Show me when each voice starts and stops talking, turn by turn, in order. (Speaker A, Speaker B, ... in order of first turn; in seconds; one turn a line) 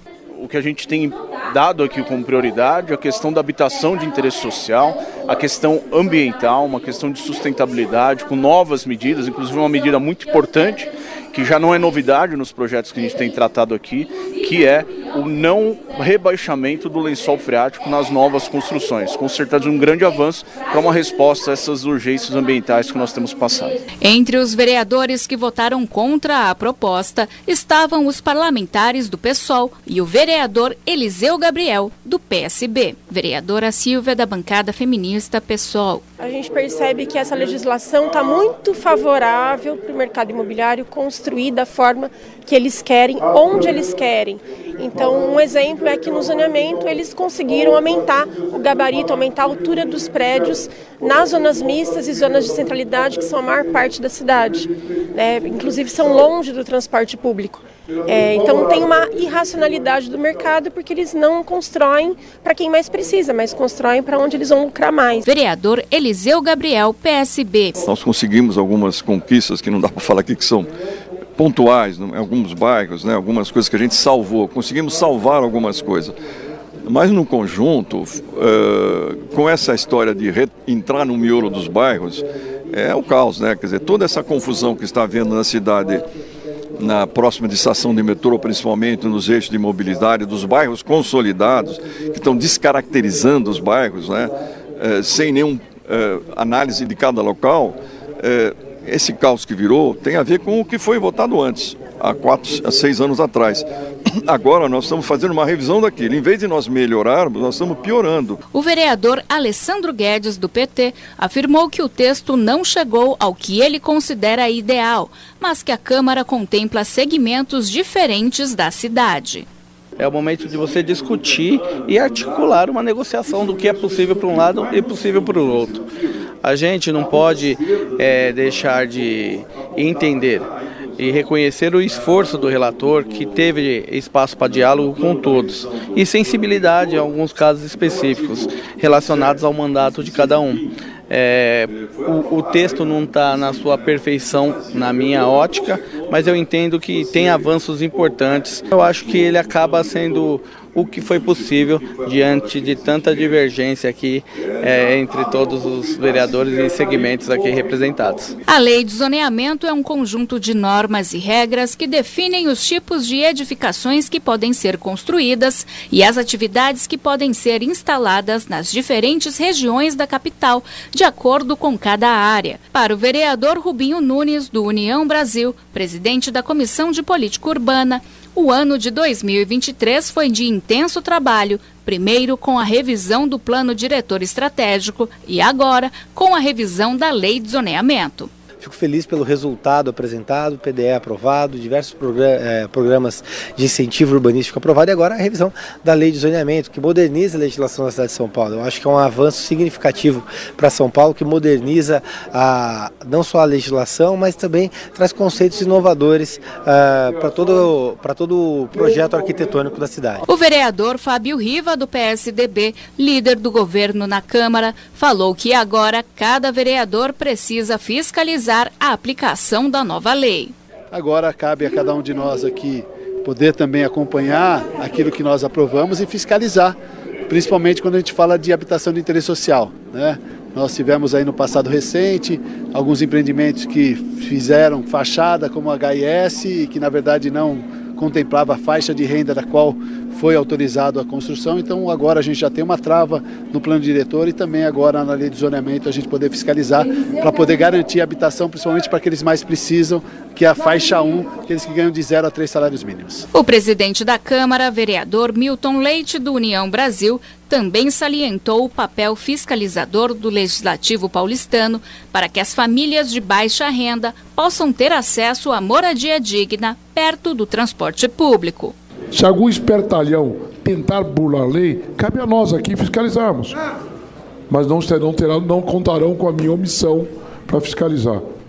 Speaker A: 0.3-23.8
Speaker B: 24.0-36.0
Speaker C: 36.2-65.2
Speaker B: 65.2-67.8
Speaker D: 67.8-70.7
Speaker D: 71.4-76.2
Speaker D: 76.9-86.1
Speaker D: 86.8-94.3
Speaker D: 94.8-103.7
Speaker D: 104.2-108.4
Speaker B: 108.5-119.5
Speaker E: 120.0-125.9
Speaker E: 126.4-158.4
Speaker B: 158.5-188.3
Speaker F: 188.6-210.2
Speaker B: 210.3-220.5
Speaker G: 220.9-226.8
Speaker G: 227.3-253.2
Speaker B: 253.3-268.8
Speaker H: 269.1-273.6
Speaker H: 274.5-278.2